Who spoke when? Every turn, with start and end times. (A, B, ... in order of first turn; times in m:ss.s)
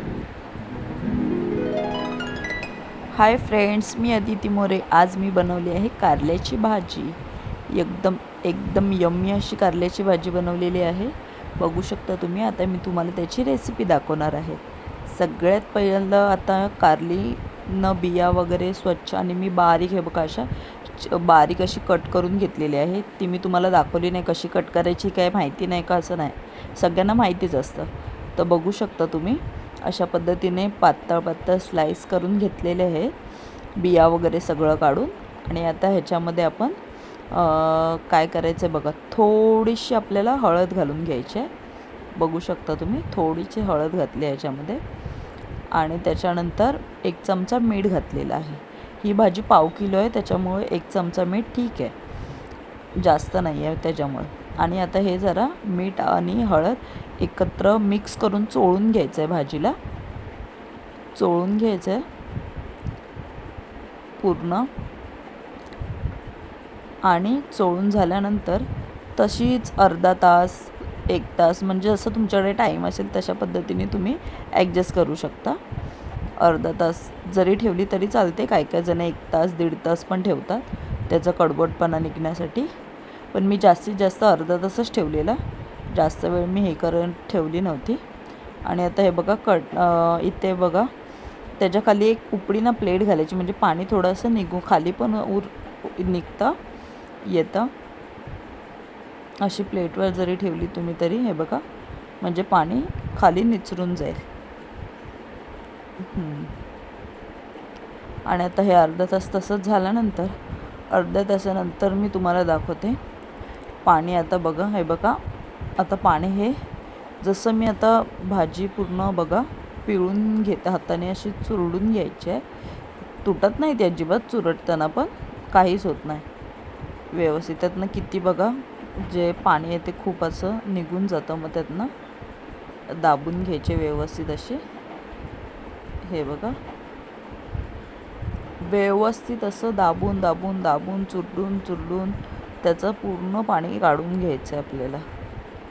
0:03.1-0:33.2 A
0:33.8-0:36.8 A
0:37.3-0:41.5 A
0:42.1-0:44.8 A
0:45.7-0:52.0 A
0:53.0-0:59.8 A
1:01.1-1:02.0 A
1:04.2-1:04.7 A
1:07.0-1:15.6 A
1:16.4-1:22.7 A
1:23.3-1:28.0 A
1:28.6-1:30.9 A
1:31.6-1:36.6 A
1:37.2-1:37.7 A
1:39.4-1:41.6 A
1:42.2-1:44.3 A
1:46.0-1:46.6 A
1:48.3-1:53.0 A
1:53.8-1:55.2 A
1:55.8-1:56.7 A
1:57.2-2:02.5 A
2:03.2-2:06.2 A
2:07.1-2:11.9 A
2:12.9-2:14.6 A
2:16.0-2:16.6 A
2:18.6-2:25.1 A